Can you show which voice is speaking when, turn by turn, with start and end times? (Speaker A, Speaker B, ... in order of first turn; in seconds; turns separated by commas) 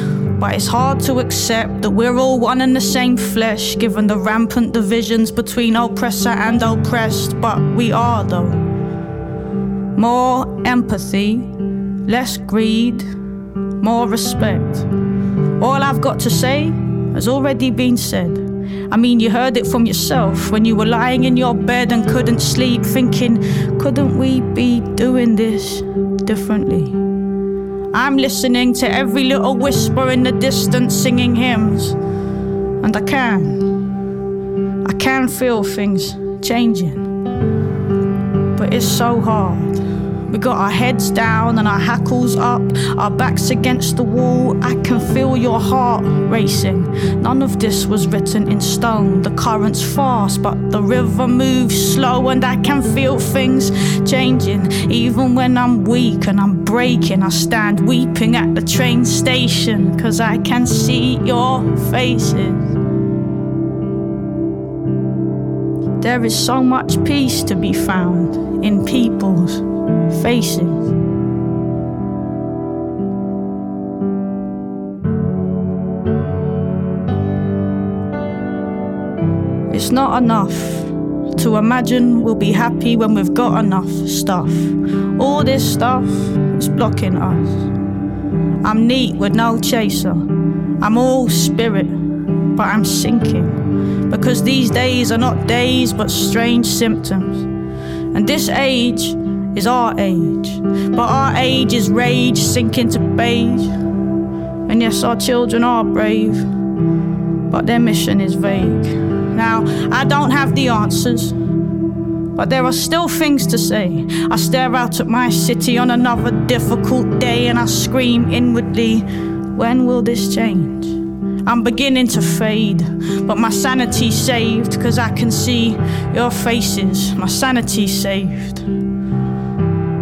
Speaker A: 0.4-8.6, Speaker A: 10.0-11.5, Speaker A: 12.1-13.1, Speaker A: 13.8-14.9, Speaker A: 15.6-27.0, Speaker A: 27.9-32.0, Speaker A: 32.8-33.6, Speaker A: 34.9-37.1, Speaker A: 38.5-39.8, Speaker A: 40.3-62.7, Speaker A: 66.0-70.9, Speaker A: 79.7-87.7, Speaker A: 88.6-90.3, Speaker A: 90.8-91.9, Speaker A: 92.6-97.5, Speaker A: 98.1-103.7, Speaker A: 104.7-106.4, Speaker A: 107.5-111.3, Speaker A: 112.4-128.7